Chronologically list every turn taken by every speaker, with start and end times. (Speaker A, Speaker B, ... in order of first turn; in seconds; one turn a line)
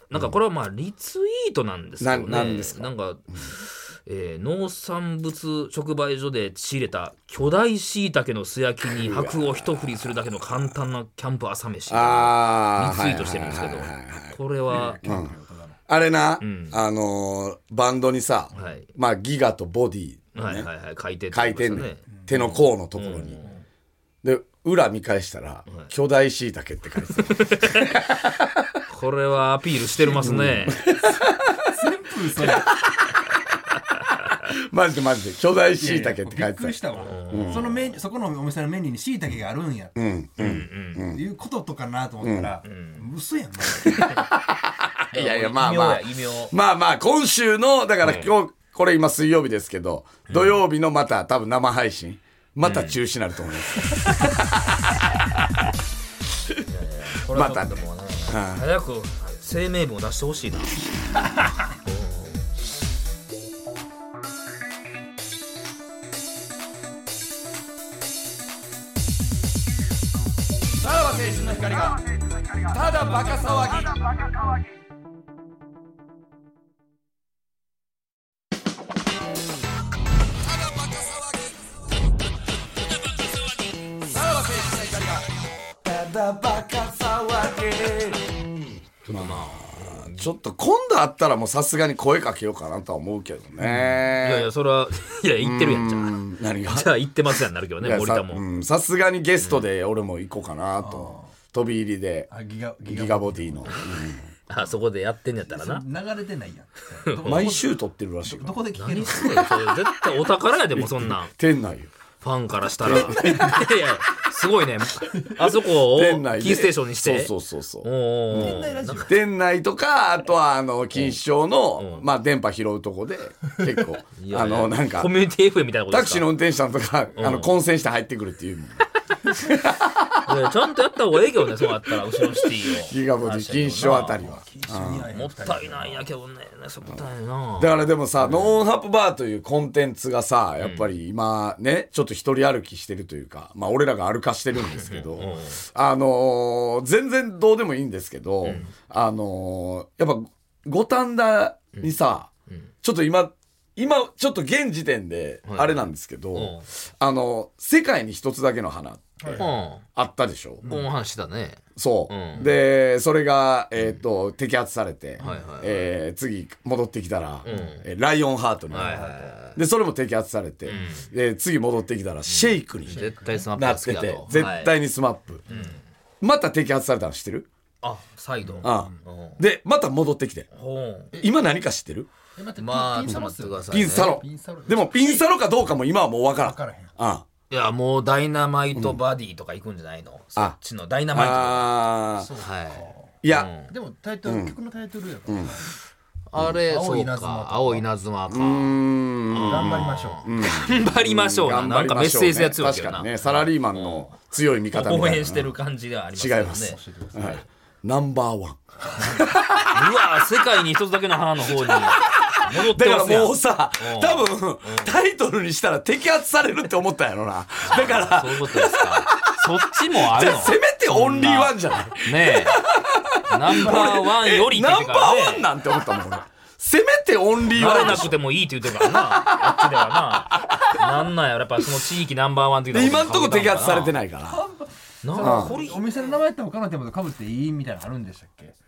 Speaker A: 0.1-15.0
Speaker B: 2.0-2.9
Speaker B: 8.9-9.8
Speaker B: 11.9-14.3
Speaker C: 14.7-15.8
Speaker B: 15.0-15.3
Speaker B: 15.9-20.7
Speaker A: 16.4-16.8
Speaker A: 18.5-18.9
Speaker A: 20.3-23.6
Speaker B: 21.3-23.4
Speaker B: 24.2-28.8
Speaker A: 27.2-27.9
Speaker A: 28.9-30.8
Speaker B: 30.1-31.7
Speaker C: 31.7-32.7
Speaker B: 32.4-33.4
Speaker B: 34.4-36.8
Speaker C: 35.8-40.0
Speaker A: 37.0-37.9
Speaker B: 37.3-37.7
Speaker B: 40.0-41.2
Speaker A: 40.4-41.0
Speaker C: 41.0-44.2
Speaker B: 42.2-42.5
Speaker A: 42.6-43.1
Speaker B: 43.9-55.7
Speaker A: 45.1-46.5
Speaker A: 48.0-48.3
Speaker A: 50.3-50.6
Speaker A: 52.6-53.0
Speaker A: 56.7-60.8
Speaker B: 57.3-58.7
Speaker A: 61.9-62.5
Speaker B: 70.8-74.3
Speaker B: 80.5-81.5
Speaker B: 84.1-94.5
Speaker A: 89.1-90.3
Speaker C: 93.6-94.0
Speaker A: 94.1-98.4
Speaker B: 95.4-96.9
Speaker B: 97.8-102.3
Speaker A: 99.4-99.7
Speaker C: 100.8-101.3
Speaker C: 102.3-104.1
Speaker B: 102.8-104.2
Speaker A: 104.5-105.8
Speaker C: 105.5-107.7
Speaker A: 107.0-107.5
Speaker B: 107.3-108.6
Speaker C: 108.2-109.6
Speaker A: 108.8-111.3
Speaker B: 110.8-111.9
Speaker A: 112.2-117.3
Speaker B: 112.8-113.7
Speaker B: 115.7-125.1
Speaker A: 117.8-119.1
Speaker C: 118.3-119.2
Speaker A: 121.8-122.1
Speaker A: 124.2-126.3
Speaker B: 125.9-130.3
Speaker A: 127.2-127.5
Speaker A: 130.2-134.2
Speaker B: 132.4-135.1
Speaker C: 133.9-136.1
Speaker A: 135.1-138.6
Speaker B: 137.6-152.3
Speaker A: 140.6-140.9
Speaker A: 144.7-145.6
Speaker A: 148.4-148.7
Speaker B: 152.8-160.7
Speaker A: 155.5-156.7
Speaker C: 159.2-159.5
Speaker A: 159.4-159.8
Speaker C: 160.6-160.9
Speaker A: 160.7-162.5
Speaker B: 161.8-175.4
Speaker A: 165.2-165.8
Speaker A: 167.4-167.8
Speaker A: 168.7-169.6
Speaker C: 168.8-169.2
Speaker A: 170.7-171.1
Speaker A: 172.3-174.8
Speaker C: 172.9-173.5
Speaker A: 175.5-175.8
Speaker B: 176.2-177.5
Speaker A: 177.8-179.4
Speaker C: 178.5-179.0
Speaker B: 178.6-180.5
Speaker A: 180.5-181.2
Speaker B: 181.2-182.1
Speaker C: 182.4-185.2
Speaker A: 182.6-184.2
Speaker B: 183.7-187.3
Speaker C: 186.3-186.9
Speaker A: 187.5-191.7
Speaker B: 188.8-189.0
Speaker B: 191.1-192.3
Speaker C: 192.2-193.1
Speaker A: 192.4-193.7
Speaker B: 193.2-193.5
Speaker C: 193.7-195.8
Speaker B: 194.3-194.6
Speaker B: 195.3-195.6
Speaker A: 196.3-204.2
Speaker C: 196.4-197.8
Speaker B: 198.3-205.5
Speaker C: 199.5-200.3
Speaker A: 204.7-207.4
Speaker B: 206.2-209.9
Speaker C: 206.5-207.4
Speaker A: 209.2-215.0
Speaker B: 211.5-228.2
Speaker A: 217.6-222.6
Speaker A: 223.3-225.5
Speaker A: 227.5-234.0
Speaker B: 228.7-229.7
Speaker B: 230.3-231.0
Speaker B: 232.7-234.4
Speaker C: 234.3-238.6
Speaker A: 235.0-236.2
Speaker B: 235.2-235.6